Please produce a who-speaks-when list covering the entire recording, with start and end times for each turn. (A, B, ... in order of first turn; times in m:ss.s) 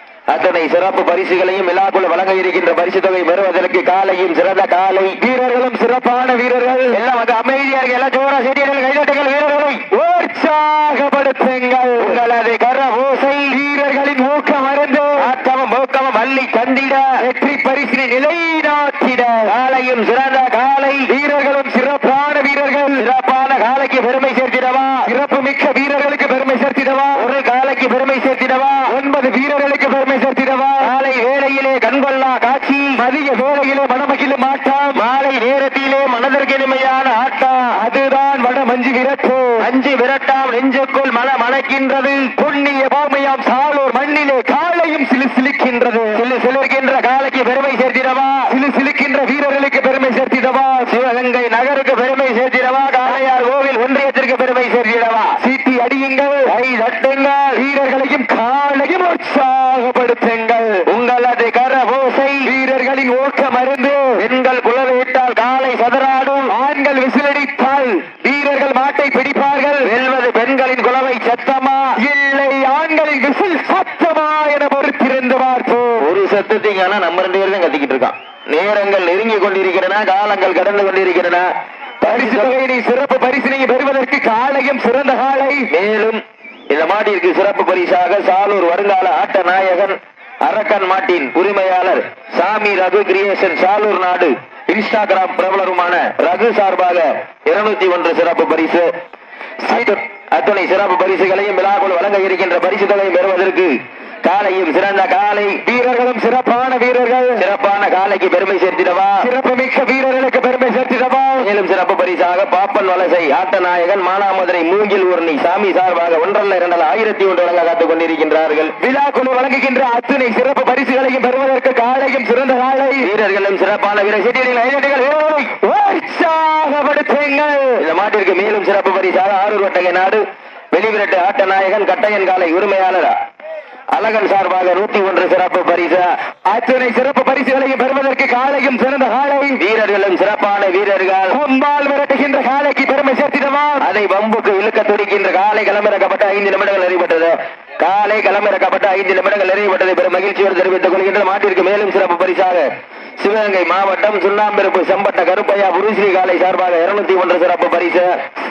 0:00.3-0:05.2 A
0:05.3-0:06.9 B
0:06.9-0:09.8 A
0:09.9-0:12.0 B
0:12.0-0:13.6 A
0:13.6-0:15.2 B
0:15.2-0:17.3 A
0:17.3-0:19.5 B
0:19.4-0:21.1 A
0:21.1-0:23.0 B
0:22.9-0:25.1 A
0:25.1-0:27.2 B
0:27.1-0:29.0 A
0:29.0-0:30.8 B
0:30.8-0:33.0 A
0:33.0-0:35.0 B
0:34.9-0:37.8 A
0:37.8-0:39.6 B
0:39.6-0:42.4 A
0:42.4-0:46.2 B
0:46.1-0:48.6 A
0:48.6-0:50.8 B
0:50.8-0:55.4 A
0:55.4-0:56.5 B
0:56.4-0:57.6 A
0:57.7-1:00.8 B
1:00.8-1:02.5 A
1:02.6-1:04.1 B
1:04.2-1:06.6 A
1:06.6-1:09.8 B
1:09.8-1:12.0 A
1:12.1-1:16.0 B
1:16.0-1:22.6 A
1:22.2-1:25.6 B
1:25.7-1:38.9 A
1:39.6-1:45.6 A
1:45.7-1:47.3 B
1:47.4-1:49.3 A
1:49.3-1:51.4 B
1:51.4-1:58.8 A
1:58.8-2:03.0 B
2:03.0-2:05.5 A
2:05.6-2:07.7 B
2:07.8-2:13.2 A
2:13.9-2:16.2 A
2:16.5-2:19.5 B
2:19.6-2:21.4 A
2:21.4-2:23.8 B
2:23.8-2:38.3 A